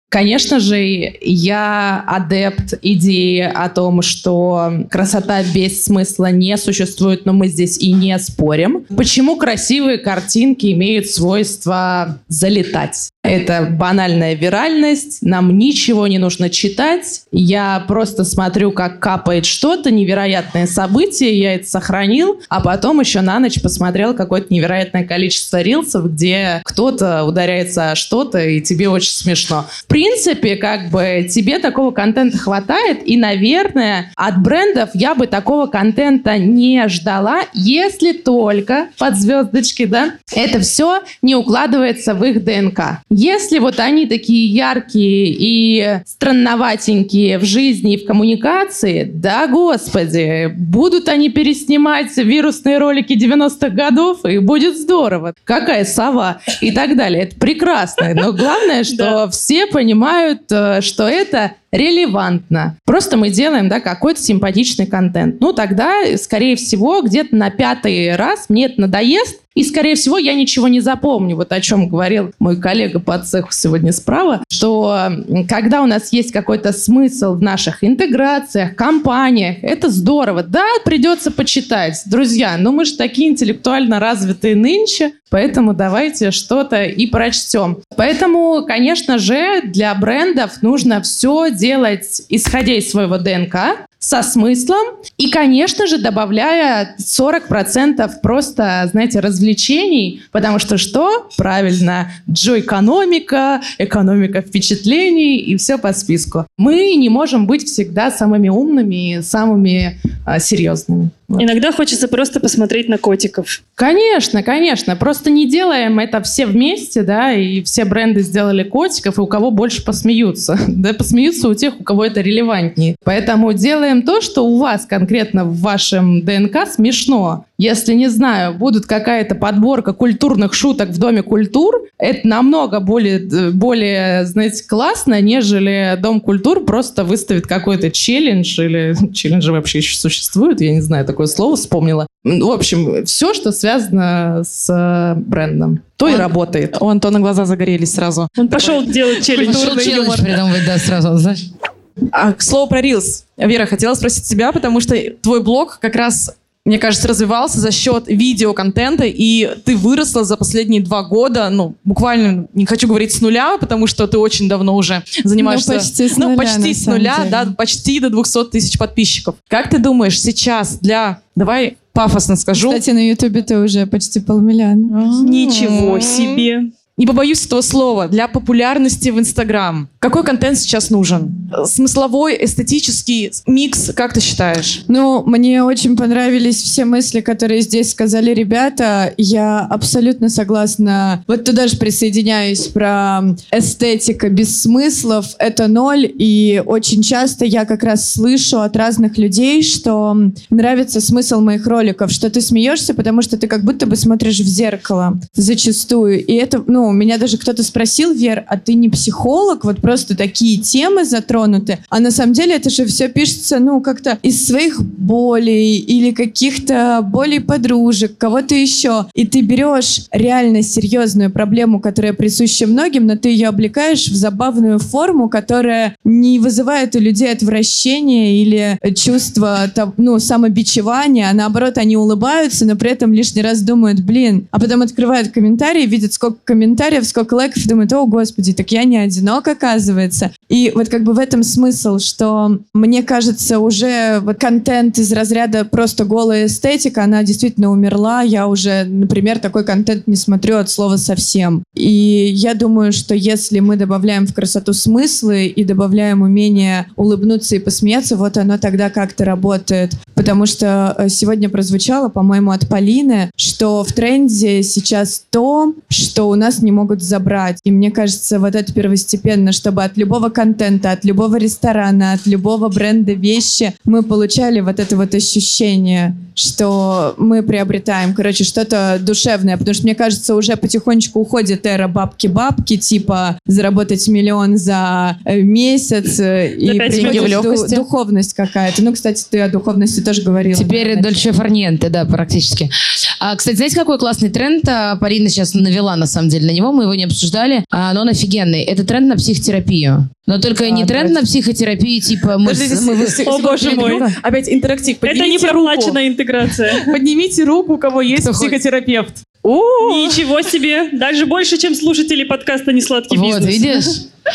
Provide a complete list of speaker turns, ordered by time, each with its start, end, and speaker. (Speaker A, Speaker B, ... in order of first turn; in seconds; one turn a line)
Speaker A: 0.1-111.5
Speaker B: 58.9-59.2
Speaker B: 111.4-113.6
Speaker A: 113.8-146.8
Speaker C: 146.1-150.4
Speaker B: 148.4-150.0
Speaker D: 149.3-151.4
Speaker C: 152.1-172.8
Speaker E: 165.4-167.5
Speaker E: 172.5-175.0
Speaker C: 174.9-184.8
Speaker B: 175.2-176.7
Speaker E: 184.9-291.2
Speaker B: 286.7-287.4
Speaker C: 286.9-287.9
Speaker D: 290.5-304.1
Speaker C: 300.7-301.2
Speaker C: 302.4-306.0
Speaker B: 303.3-304.1
Speaker B: 305.1-306.9
Speaker C: 306.5-310.3
Speaker D: 308.2-308.5
Speaker B: 309.8-313.9
Speaker D: 313.1-314.0